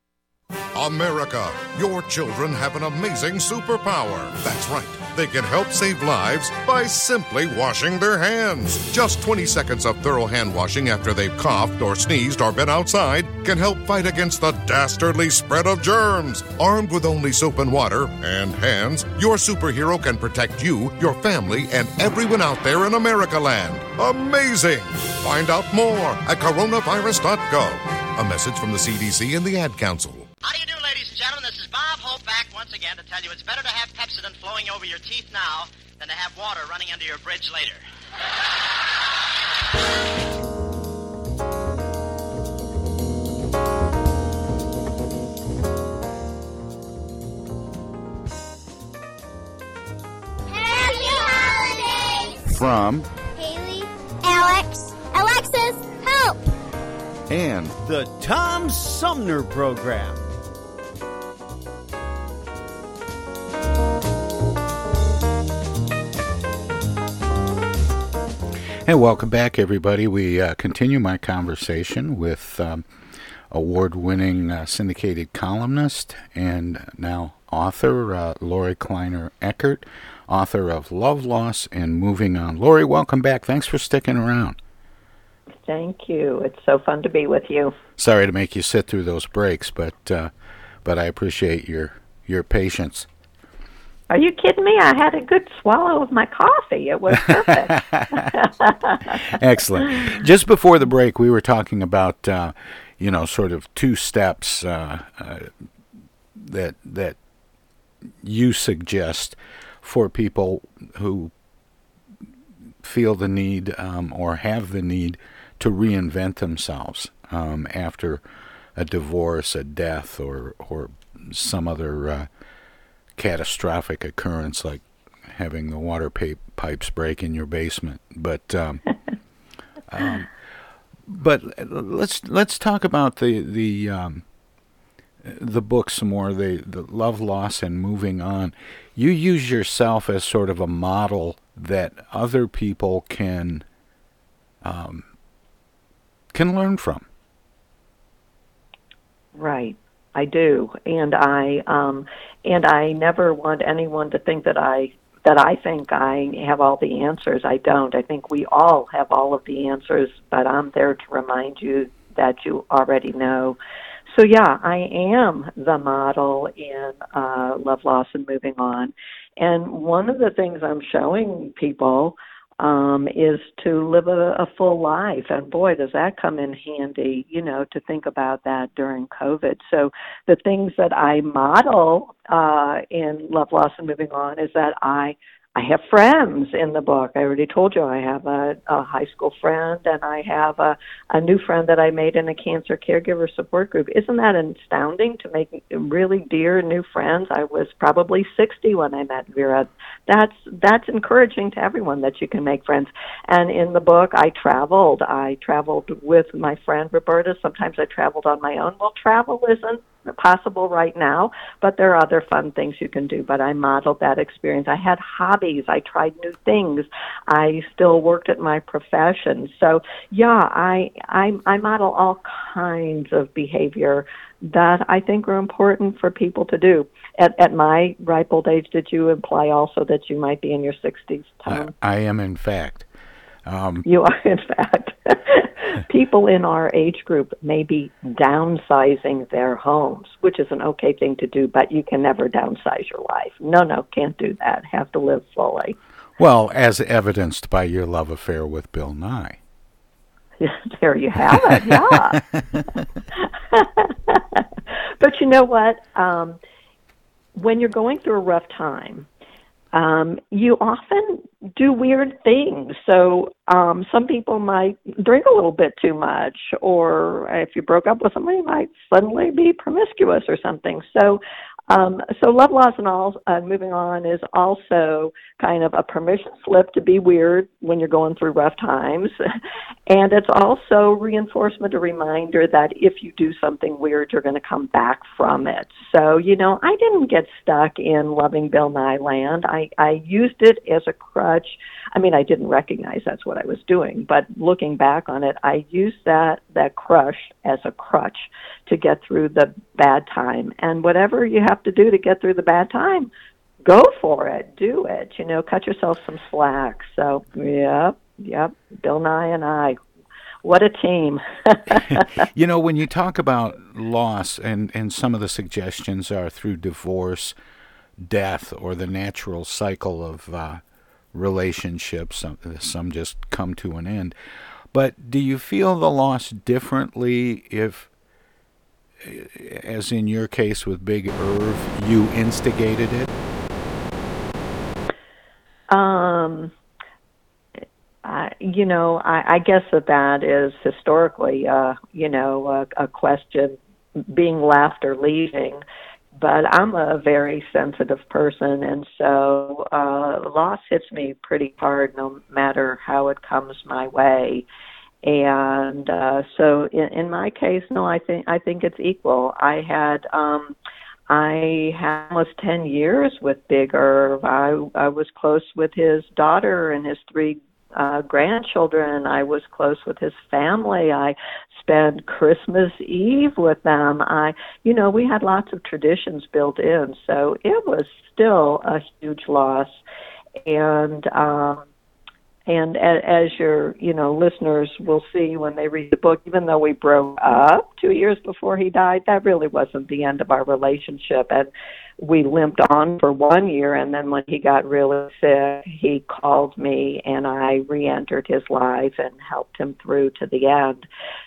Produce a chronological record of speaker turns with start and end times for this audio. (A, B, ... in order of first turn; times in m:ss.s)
0:00.7-0:30.3 A
0:30.4-0:37.8 B
0:50.5-0:52.5 C
0:52.5-0:53.1 D
0:53.4-0:56.5 C
0:57.3-0:57.8 D
0:57.8-1:00.3 E
1:08.9-1:12.8 D
1:13.5-1:24.6 D
1:25.7-1:27.7 F
1:28.0-1:30.3 D
1:30.8-1:33.1 D
1:34.1-1:39.2 F
1:37.4-1:38.3 D
1:39.3-1:45.5 D
1:46.4-1:47.2 D
1:48.2-1:51.3 D
1:52.8-1:58.2 D
1:58.8-2:02.3 D
2:03.2-2:08.8 D
2:09.9-2:10.3 D
2:11.1-2:14.2 D
2:15.2-2:23.6 D
2:24.6-2:25.1 D
2:26.3-2:27.1 D
2:29.3-2:43.6 F
2:44.1-3:51.7 F
3:51.5-3:52.9 D
3:53.5-3:53.8 D
3:53.8-4:05.8 F
4:06.2-4:09.4 D
4:10.4-4:12.2 F
4:12.1-4:12.6 D
4:13.2-4:14.5 F
4:15.0-4:16.4 F
4:17.4-4:19.1 F
4:19.7-4:39.1 F
4:39.9-5:03.1 F
5:03.6-5:09.8 F
5:10.4-5:12.1 F
5:11.9-5:17.4 D
5:18.0-5:20.6 D
5:21.1-5:24.2 D
5:24.7-5:27.9 D
5:29.0-5:33.1 D
5:35.7-5:36.5 F
5:38.0-5:43.6 F
5:44.1-5:45.6 F
5:46.2-5:54.5 F
5:55.0-6:00.6 F
6:01.1-6:19.8 F
6:20.4-6:21.7 F
6:22.5-6:40.9 F